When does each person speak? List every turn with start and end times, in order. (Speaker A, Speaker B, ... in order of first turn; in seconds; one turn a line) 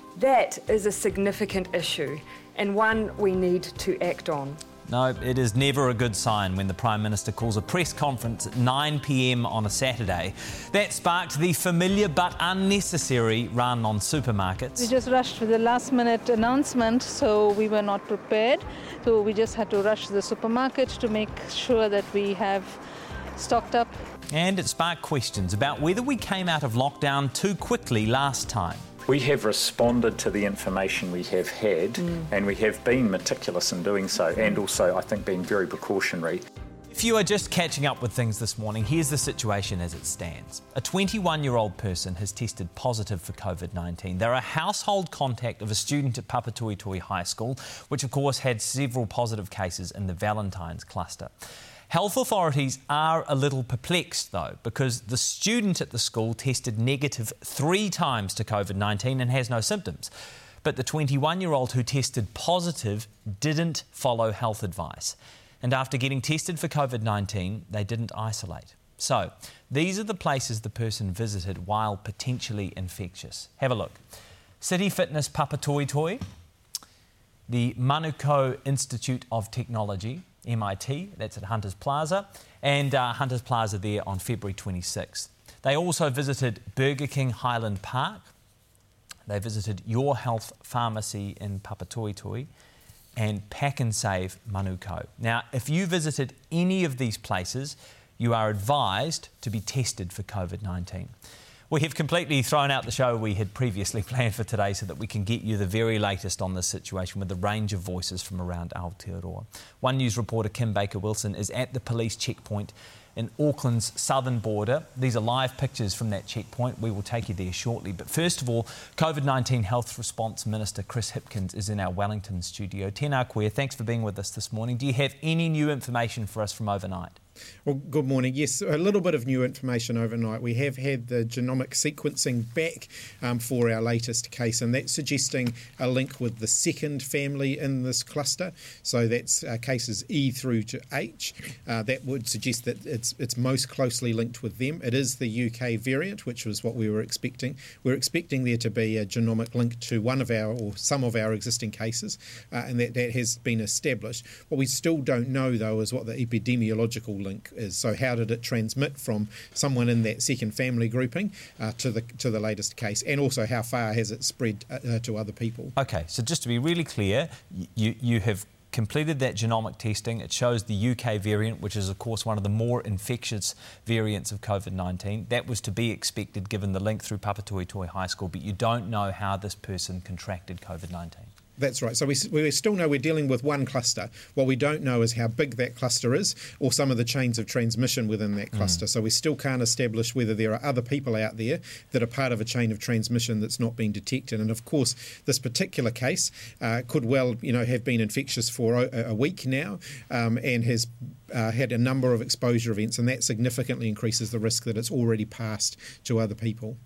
Speaker A: 0.1-4.6
Speaker B: 4.9-14.9
Speaker C: 14.8-22.8
Speaker C: 23.4-23.9
Speaker B: 24.3-28.8
Speaker D: 29.1-36.4
Speaker A: 32.0-32.3
Speaker B: 36.9-51.3
Speaker B: 51.9-60.1
Speaker B: 60.6-74.0
Speaker B: 74.6-76.2
Speaker B: 77.5-88.3
Speaker B: 89.3-92.5
Speaker B: 93.2-101.1
Speaker B: 101.7-127.2
Speaker E: 127.7-165.8
Speaker B: 165.8-181.3
Speaker E: 181.6-206.8